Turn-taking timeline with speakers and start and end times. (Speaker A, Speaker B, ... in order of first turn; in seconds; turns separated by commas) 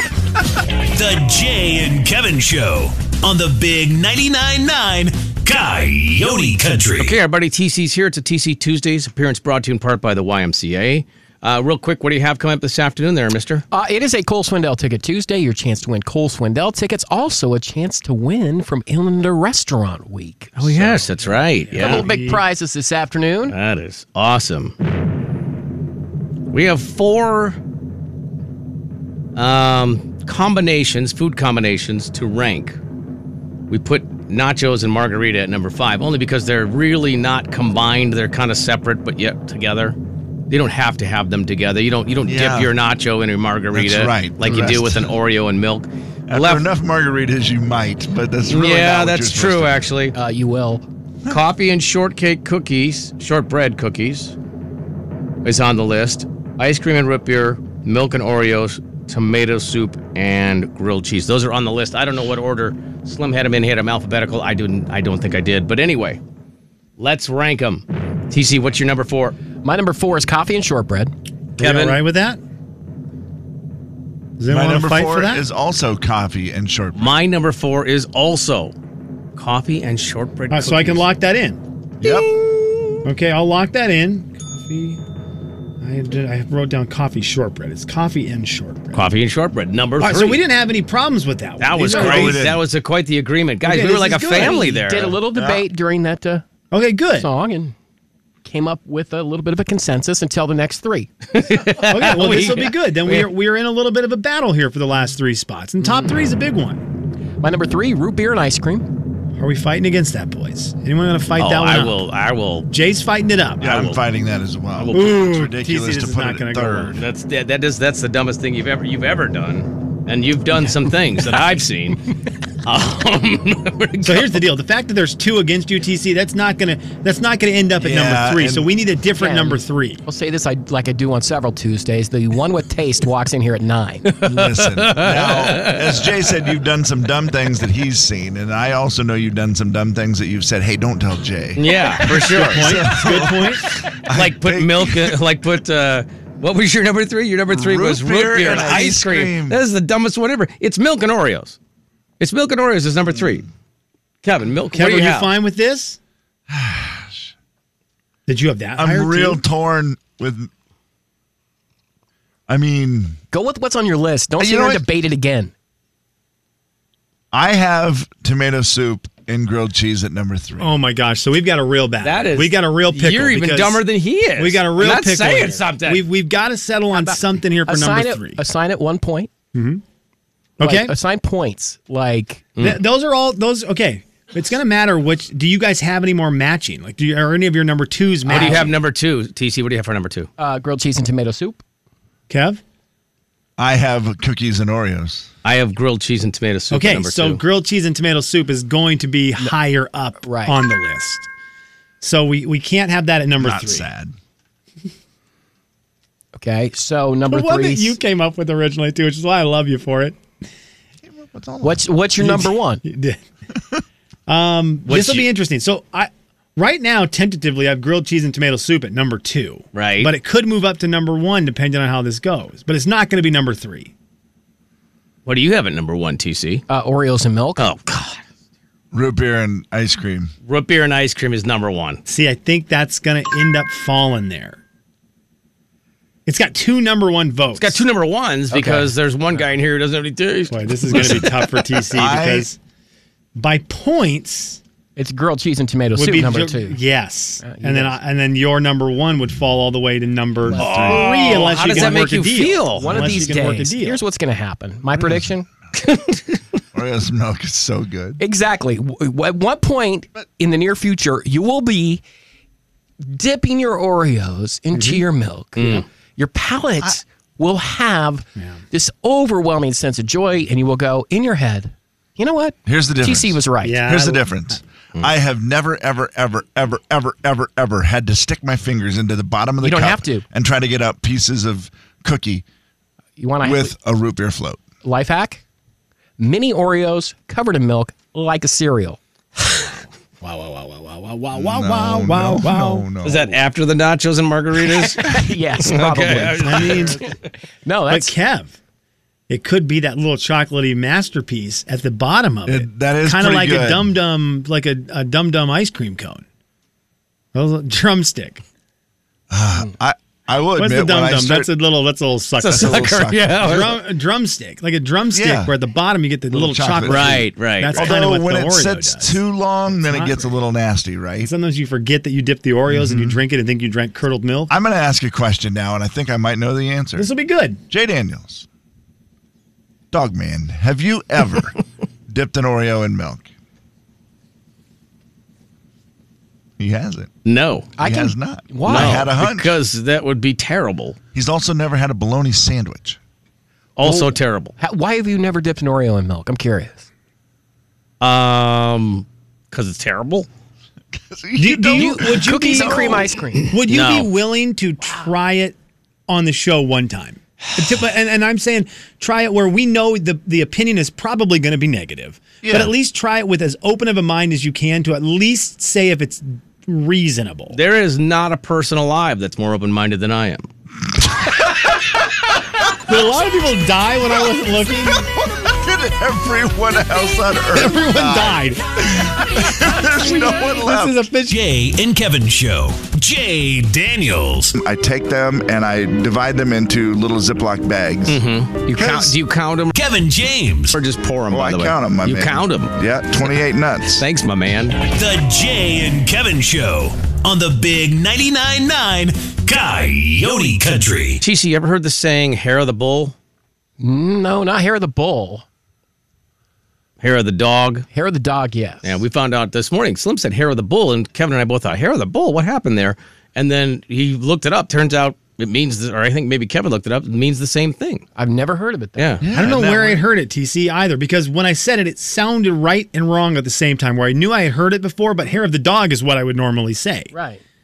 Speaker A: 0.9-7.2, Speaker B: 7.0-13.6, Speaker C: 13.7-20.5, Speaker B: 20.6-22.1, Speaker D: 20.6-22.4, Speaker C: 21.7-23.5, Speaker B: 23.5-24.7, Speaker B: 26.5-27.6, Speaker B: 29.3-32.8, Speaker B: 33.7-40.0, Speaker B: 40.5-46.6, Speaker E: 42.2-42.7, Speaker E: 43.7-45.1, Speaker E: 46.3-49.9, Speaker B: 48.5-50.1, Speaker C: 50.1-50.8, Speaker B: 51.3-54.3, Speaker B: 55.4-66.2, Speaker B: 67.0-69.3, Speaker C: 69.6-71.1, Speaker B: 71.6-72.0, Speaker D: 71.6-72.4, Speaker D: 74.4-75.4, Speaker E: 74.5-77.1, Speaker B: 76.9-78.7, Speaker B: 79.3-81.0, Speaker D: 80.5-81.6, Speaker E: 82.0-82.4, Speaker D: 83.0-85.0, Speaker D: 85.8-89.0, Speaker B: 88.9-90.4, Speaker D: 90.0-92.4, Speaker B: 91.6-95.2, Speaker E: 91.9-92.6, Speaker D: 93.6-94.7, Speaker C: 94.3-96.5, Speaker E: 95.3-95.6, Speaker D: 96.7-97.3, Speaker C: 97.1-97.7, Speaker C: 98.4-101.1, Speaker B: 101.3-103.3, Speaker D: 101.9-106.8, Speaker C: 107.4-108.9, Speaker D: 109.4-112.0, Speaker B: 111.4-112.7, Speaker D: 112.7-113.7, Speaker E: 113.6-117.0, Speaker B: 113.6-114.0, Speaker B: 114.8-115.2, Speaker D: 114.9-117.0, Speaker B: 116.9-122.0, Speaker B: 122.6-124.4, Speaker D: 124.0-130.0, Speaker E: 127.8-128.7, Speaker C: 129.2-134.1, Speaker B: 134.1-136.0, Speaker E: 134.2-145.2, Speaker B: 141.6-142.9, Speaker D: 142.3-143.7, Speaker B: 144.1-151.6, Speaker E: 147.5-149.6, Speaker B: 152.2-153.5, Speaker B: 154.2-155.3, Speaker D: 154.7-156.0, Speaker E: 156.5-157.3, Speaker D: 158.3-159.4, Speaker E: 158.8-160.5, Speaker E: 162.5-163.2, Speaker C: 163.3-165.5, Speaker E: 164.4-164.8, Speaker E: 167.3-170.7, Speaker D: 170.6-173.8, Speaker B: 172.0-176.0, Speaker D: 174.4-178.4, Speaker C: 176.9-179.3, Speaker D: 179.5-179.8, Speaker D: 180.6-180.9, Speaker C: 180.6-182.5, Speaker B: 182.6-182.8, Speaker D: 182.6-188.8, Speaker B: 188.2-190.3, Speaker C: 188.3-188.7, Speaker C: 190.4-191.6, Speaker D: 192.3-192.6, Speaker E: 193.6-195.3, Speaker B: 195.4-197.4, Speaker D: 196.7-201.3, Speaker C: 200.2-200.5, Speaker D: 202.0-203.9, Speaker E: 203.4-204.1, Speaker C: 206.3-208.0, Speaker D: 207.3-210.2, Speaker E: 211.0-211.9, Speaker C: 211.6-212.8, Speaker D: 212.2-213.2, Speaker D: 214.3-223.9, Speaker B: 214.8-215.3, Speaker B: 219.7-220.1, Speaker B: 225.2-226.6, Speaker C: 226.7-227.7, Speaker B: 227.6-228.2, Speaker E: 228.9-230.3, Speaker B: 230.4-232.0, Speaker D: 232.1-234.6, Speaker D: 236.2-237.8, Speaker B: 237.5-241.3, Speaker C: 238.5-238.9, Speaker D: 240.5-242.6, Speaker E: 240.9-241.2, Speaker E: 241.9-242.5, Speaker D: 243.3-244.6, Speaker C: 244.9-246.8, Speaker D: 245.9-254.0, Speaker C: 247.4-248.0, Speaker C: 250.4-252.0, Speaker B: 250.5-253.2, Speaker C: 252.7-255.5, Speaker B: 255.7-256.4, Speaker E: 256.7-258.2, Speaker C: 258.2-262.0, Speaker C: 263.0-273.8, Speaker D: 264.7-265.0, Speaker B: 265.6-265.9, Speaker E: 272.6-282.4, Speaker D: 273.6-274.6, Speaker C: 279.6-280.2, Speaker C: 283.2-283.7, Speaker E: 283.4-284.6, Speaker C: 284.8-285.4, Speaker C: 286.2-289.7, Speaker D: 290.2-292.9, Speaker E: 291.3-293.4, Speaker B: 293.0-297.1, Speaker C: 294.6-297.1, Speaker D: 296.4-297.1, Speaker C: 297.6-298.1, Speaker D: 297.9-298.5, Speaker D: 299.3-306.2, Speaker E: 302.4-303.9, Speaker D: 307.3-308.4, Speaker E: 309.3-311.5, Speaker D: 310.6-319.2, Speaker B: 312.4-313.8, Speaker E: 312.4-313.5, Speaker E: 315.1-315.5, Speaker E: 316.3-321.3, Speaker B: 316.8-318.0, Speaker D: 319.8-320.3, Speaker D: 321.2-324.5, Speaker E: 322.7-323.2, Speaker E: 324.5-327.1, Speaker D: 326.9-327.6, Speaker E: 327.7-328.5, Speaker E: 329.9-331.6, Speaker E: 332.1-333.3, Speaker E: 336.6-337.1, Speaker B: 337.2-337.7, Speaker C: 337.8-339.1, Speaker E: 337.8-339.6, Speaker B: 338.6-341.0, Speaker E: 341.1-343.0, Speaker B: 343.8-344.5, Speaker C: 343.8-346.9, Speaker B: 348.0-350.3, Speaker E: 350.9-353.1, Speaker D: 351.4-355.6, Speaker C: 351.7-353.5, Speaker B: 353.6-354.1, Speaker D: 356.1-367.6, Speaker E: 362.4-362.7, Speaker B: 367.5-370.4, Speaker D: 372.9-375.1, Speaker E: 374.9-381.1, Speaker D: 377.5-378.6, Speaker D: 379.8-381.4, Speaker A: 381.2-384.6, Speaker E: 384.5-389.2, Speaker B: 388.1-389.7, Speaker A: 389.7-390.8, Speaker B: 390.7-392.7, Speaker E: 391.3-394.0, Speaker B: 394.0-394.8, Speaker A: 394.8-401.2, Speaker B: 401.2-403.1, Speaker C: 403.8-405.4, Speaker B: 407.0-407.9, Speaker C: 407.9-409.0, Speaker B: 408.8-418.0, Speaker C: 418.1-419.2, Speaker B: 419.0-419.2, Speaker E: 419.2-420.1, Speaker D: 419.3-427.1, Speaker C: 427.1-427.4